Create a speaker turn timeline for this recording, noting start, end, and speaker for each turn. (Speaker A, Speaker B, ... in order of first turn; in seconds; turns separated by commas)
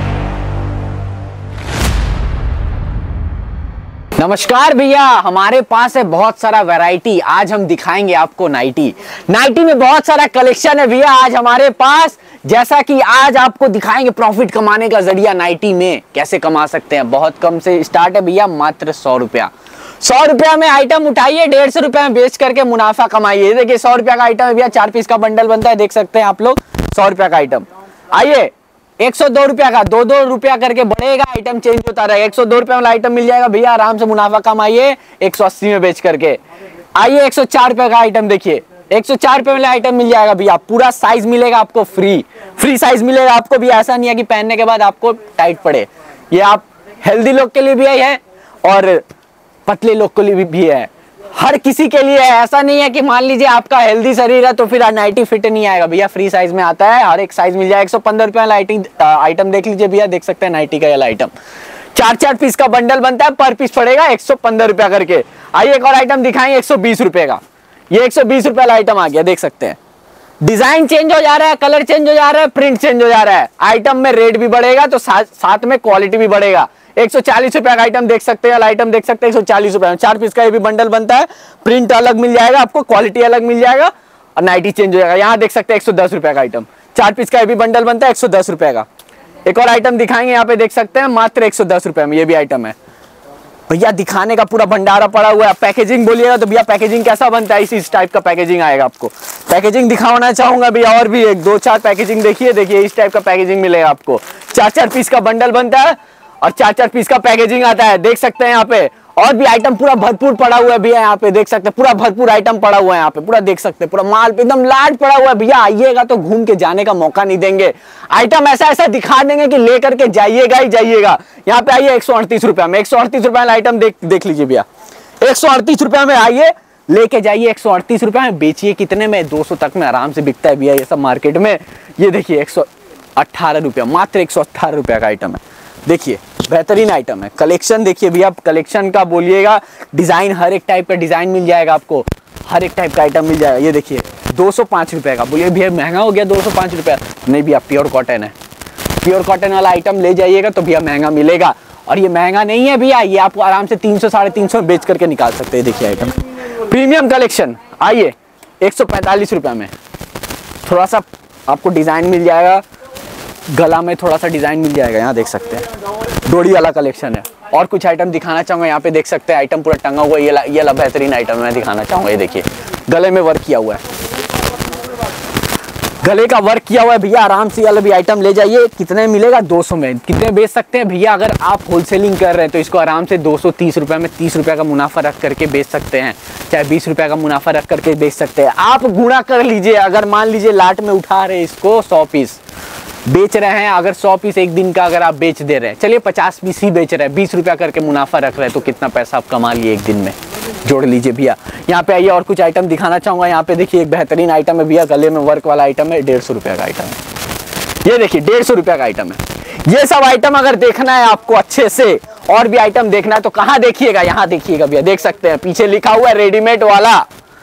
Speaker A: 4.2-19.5, Speaker A: 20.0-36.4, Speaker A: 37.0-49.0, Speaker A: 49.6-61.3, Speaker A: 61.9-67.4, Speaker A: 67.9-69.8, Speaker A: 70.4-88.9, Speaker A: 89.5-92.8, Speaker A: 93.7-124.7, Speaker A: 125.2-148.3, Speaker A: 149.0-159.7, Speaker A: 160.6-162.6, Speaker A: 163.5-173.8, Speaker A: 176.0-192.4, Speaker A: 193.1-207.0, Speaker A: 207.8-217.0